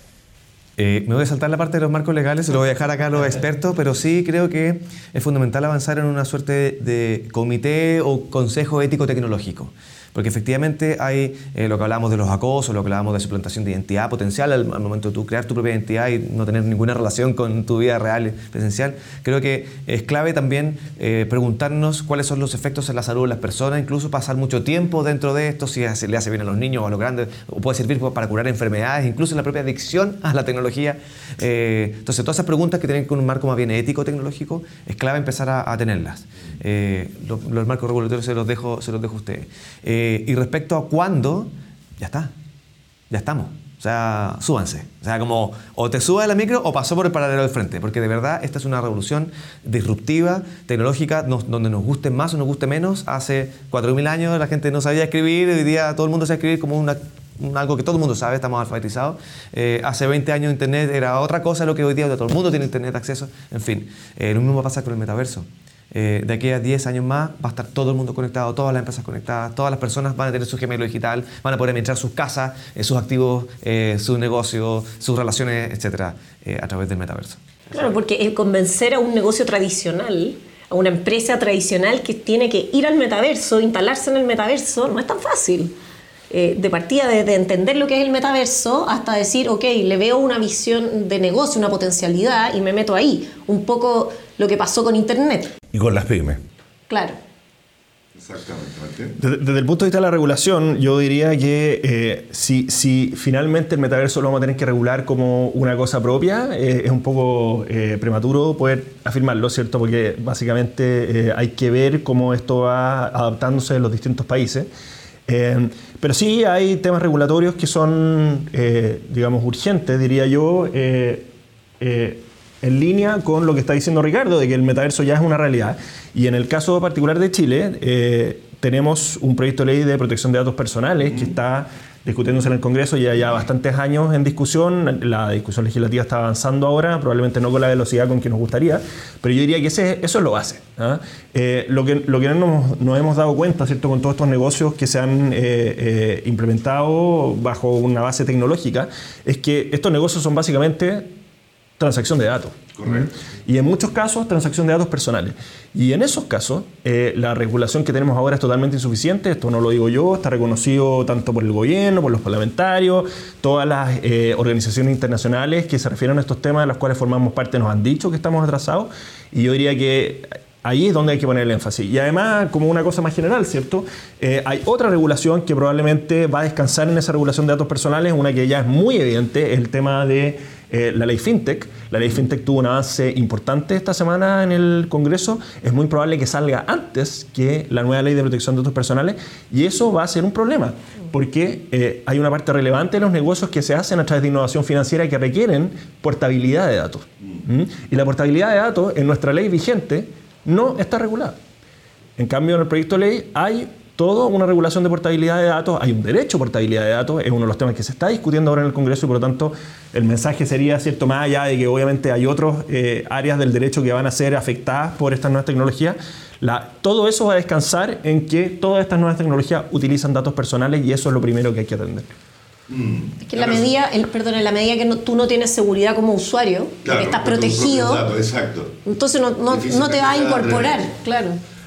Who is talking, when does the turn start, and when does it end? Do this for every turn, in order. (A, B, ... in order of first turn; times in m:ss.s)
0:00.8-0:42.3 A
0:43.1-1:17.4 A
1:17.7-1:25.7 B
1:26.3-1:35.5 B
1:35.7-1:36.4 C
1:36.9-1:37.2 B
1:38.2-1:39.2 C
1:39.2-1:54.7 D
1:55.3-2:31.1 D
2:31.8-3:21.4 D
2:32.8-2:33.1 C
3:22.2-3:42.1 D
3:42.7-3:43.7 C
3:43.2-3:48.1 B
3:46.8-3:48.8 C
3:48.8-3:51.4 B
3:49.5-3:50.9 C